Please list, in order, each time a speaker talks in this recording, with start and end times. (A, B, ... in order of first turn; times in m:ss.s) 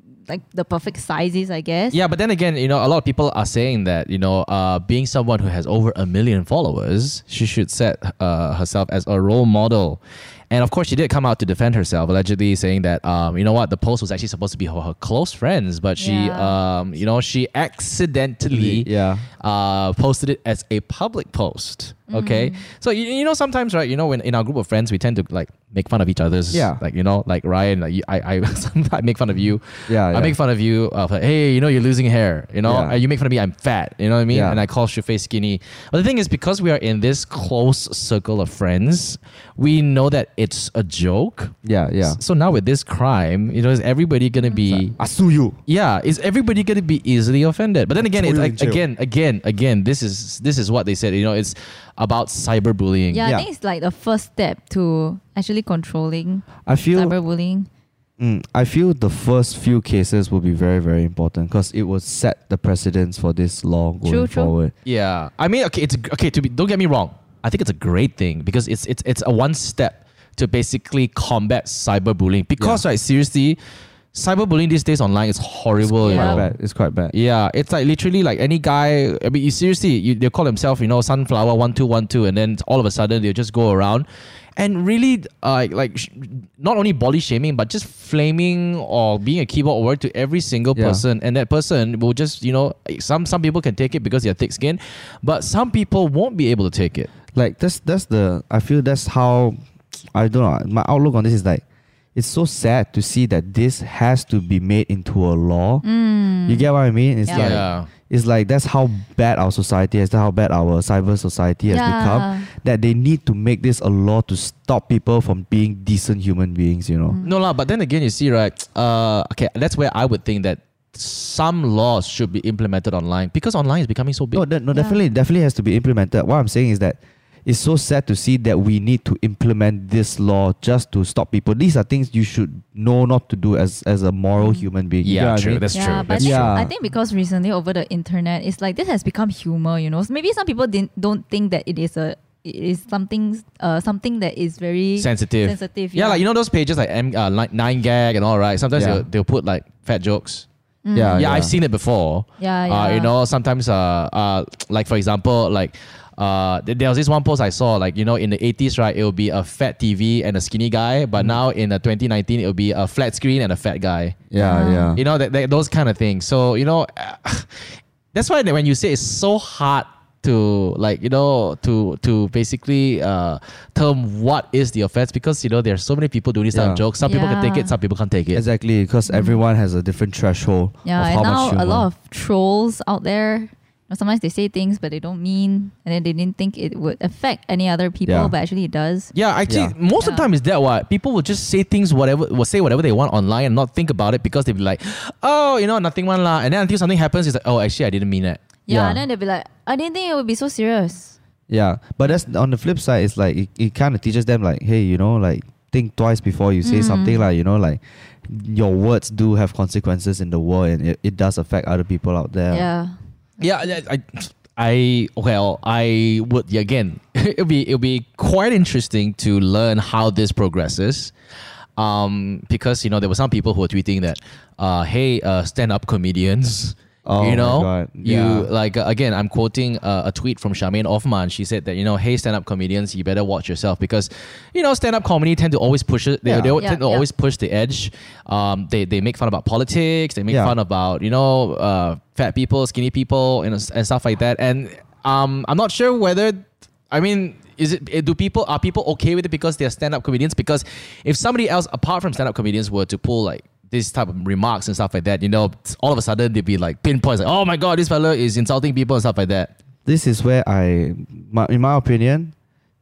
0:00.3-0:02.0 A
0:01.9-0:18.9 B
0:16.0-0:16.6 A
0:18.5-0:19.3 C
0:19.4-0:44.9 B
0:22.1-0:22.6 A
0:26.5-0:26.8 C
0:29.9-0:30.4 C
0:32.6-0:33.0 C
0:34.3-0:34.6 C
0:41.6-0:42.2 C
0:44.5-0:44.8 A
0:44.7-0:45.6 C
0:45.7-0:53.2 B
0:48.0-0:48.8 C
0:53.1-0:57.7 A
0:56.6-0:57.1 C
0:58.2-1:04.7 C
1:04.1-1:04.5 A
1:04.8-1:13.6 B
1:14.1-1:16.5 B
1:15.8-1:17.1 C
1:16.0-1:16.4 A
1:17.1-1:37.1 B
1:30.8-1:31.0 C
1:37.3-1:39.6 C
1:40.1-1:41.6 C
1:42.2-1:45.8 C
1:45.8-1:46.7 A
1:46.5-1:57.2 C
1:47.3-1:47.5 A
1:47.3-1:47.9 B
1:51.7-1:52.5 A
1:57.1-1:57.4 A
1:57.2-2:04.4 B
2:04.3-2:16.7 C
2:04.7-2:05.0 A
2:14.4-2:14.7 A
2:15.0-2:16.6 B
2:15.7-2:26.2 A
2:25.0-2:30.5 B
2:28.8-2:29.0 C
2:30.8-2:31.2 A
2:30.9-2:31.5 C
2:31.2-2:44.2 B
2:32.4-2:33.1 A
2:44.3-2:45.0 C
2:44.4-2:45.0 A
2:45.0-2:58.4 B
2:56.5-2:56.8 C
2:57.0-2:57.8 A
2:58.3-3:01.9 C
2:59.1-2:59.4 A
3:00.8-3:09.1 A
3:08.1-3:08.3 C
3:09.1-3:18.4 B
3:09.5-3:09.8 C
3:10.0-3:10.3 A
3:18.7-3:21.2 A
3:18.7-3:19.0 C
3:21.5-3:32.7 C
3:26.6-3:27.3 A
3:32.5-3:32.9 A
3:33.4-3:41.1 B
3:41.8-4:19.5 B
3:47.0-3:48.5 C
3:56.3-3:56.6 C
3:56.6-3:57.0 A
4:19.9-4:22.3 C